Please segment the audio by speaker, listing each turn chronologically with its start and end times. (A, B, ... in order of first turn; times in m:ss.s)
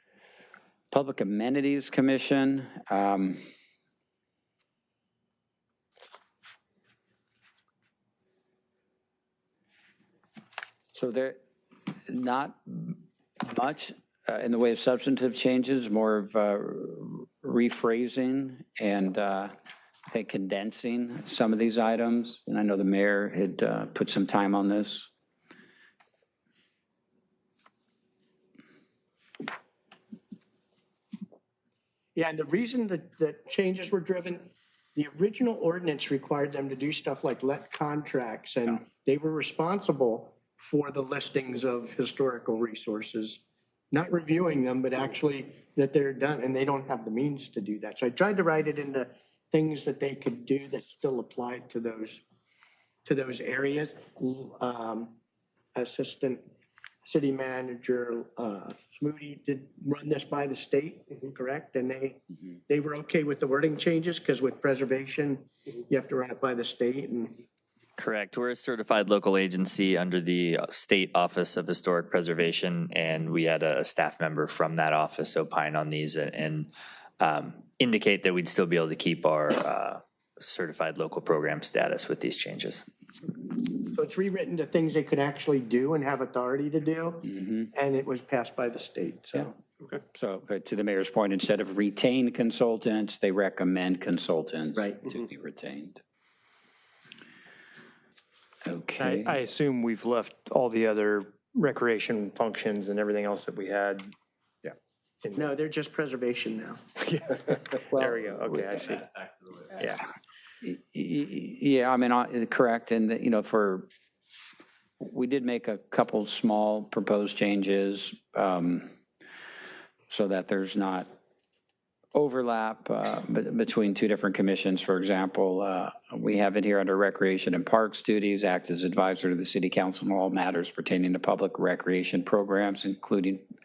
0:00.9-0:03.4 A
0:10.9-0:11.4 A
0:12.1-0:19.5 A
0:20.1-0:25.1 A
0:32.1-0:43.4 B
0:43.9-0:52.2 B
0:53.0-0:55.2 B
0:55.7-0:56.5 B
0:57.0-1:07.4 B
1:08.0-1:16.7 C
1:17.2-1:22.8 C
1:23.9-1:29.5 B
1:27.2-1:27.7 A
1:30.1-1:36.0 A
1:38.6-1:39.4 A
1:39.0-1:44.1 D
1:45.3-1:46.8 B
1:47.5-1:49.0 D
1:47.9-1:48.8 A
1:50.6-1:53.9 A
1:55.0-1:58.9 A
2:00.1-2:01.1 A
2:02.1-2:13.4 A